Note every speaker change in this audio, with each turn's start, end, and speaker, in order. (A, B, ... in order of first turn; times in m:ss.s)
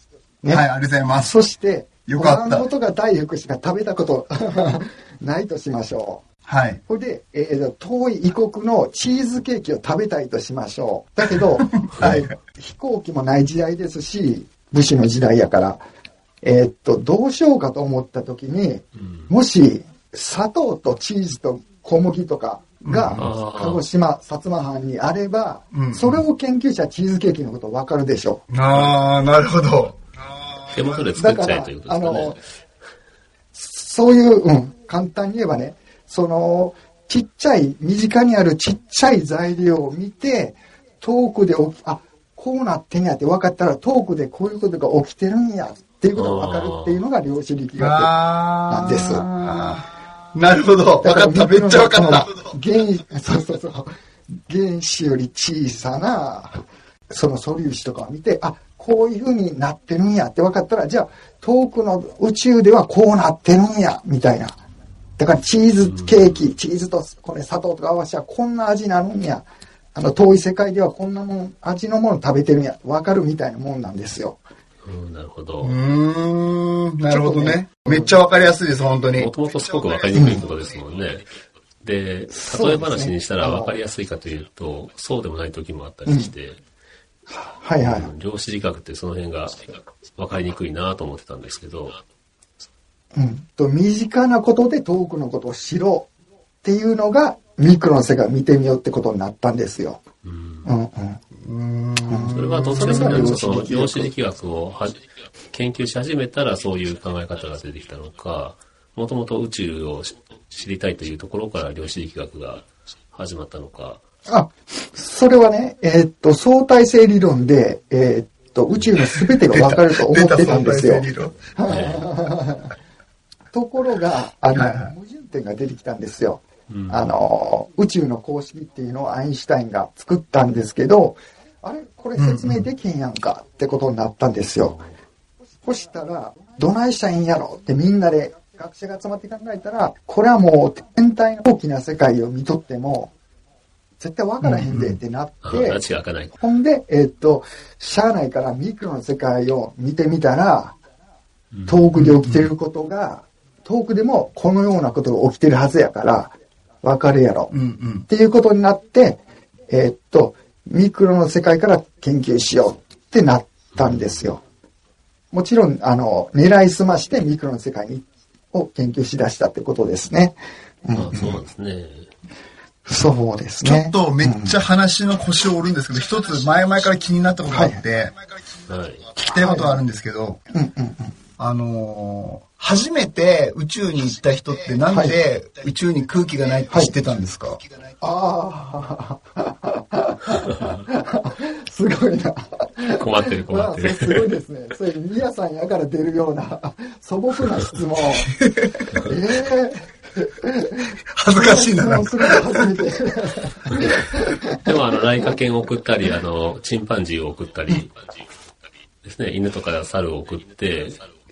0:00.5-0:01.3 A
0:01.2-0:06.2 B
0:02.0-0:02.7 A
0:06.4-0:06.8 A
0:06.9-0:15.8 B
0:11.8-0:12.3 A
0:16.4-0:28.4 B
0:22.8-0:23.2 A
0:23.2-0:23.8 C
0:25.7-0:26.2 A
0:28.5-0:30.6 A
0:30.7-0:32.4 C
0:31.1-0:32.4 B
0:33.5-0:48.1 B
0:46.1-0:47.0 C
0:47.8-0:52.5 A
0:48.7-0:49.2 B
0:51.0-0:53.9 B
0:54.5-1:04.5 B
1:05.2-1:14.4 B
1:05.8-1:06.5 C
1:14.8-1:15.8 C
1:15.6-1:19.3 A
1:17.1-1:18.2 B
1:19.2-1:21.2 C
1:20.1-1:20.4 B
1:21.8-1:26.6 C
1:22.3-1:23.8 B
1:26.0-1:26.3 B
1:27.3-1:28.1 B
1:27.8-1:32.0 C
1:33.1-1:36.1 B
1:36.6-1:40.0 B
1:40.2-1:40.7 C
1:40.6-1:41.2 B
1:41.4-1:43.3 A
1:42.1-1:44.1 B
1:42.3-1:45.0 C
1:45.5-1:54.0 C
1:54.3-2:02.7 B
1:59.1-2:01.5 A
2:01.7-2:02.1 C
2:03.5-2:14.8 B
2:04.5-2:04.9 A
2:06.7-2:07.1 C
2:12.2-2:12.7 A
2:14.6-2:14.9 C
2:15.6-2:23.1 B
2:24.0-2:25.8 B
2:24.4-2:25.0 A
2:25.4-2:26.4 C
2:26.4-2:30.8 B
2:31.5-2:31.8 C
2:31.7-2:37.5 B
2:31.9-2:32.5 A
2:37.5-2:38.0 A
2:38.1-2:44.4 B
2:43.7-2:44.3 C
2:45.3-2:51.4 B
2:51.0-2:52.1 C
2:52.9-2:54.6 B
2:53.6-2:58.2 A
2:57.5-2:57.8 B
2:58.7-2:59.0 C
2:59.2-2:59.8 B
2:59.2-3:00.4 A
3:00.5-3:01.1 B
3:01.4-3:07.6 A
3:04.9-3:05.2 B
3:08.0-3:18.3 B
3:13.0-3:14.2 C
3:18.2-3:18.8 A
3:19.0-3:24.6 B
3:21.2-3:22.7 A
3:24.6-3:28.0 C
3:29.0-3:31.0 C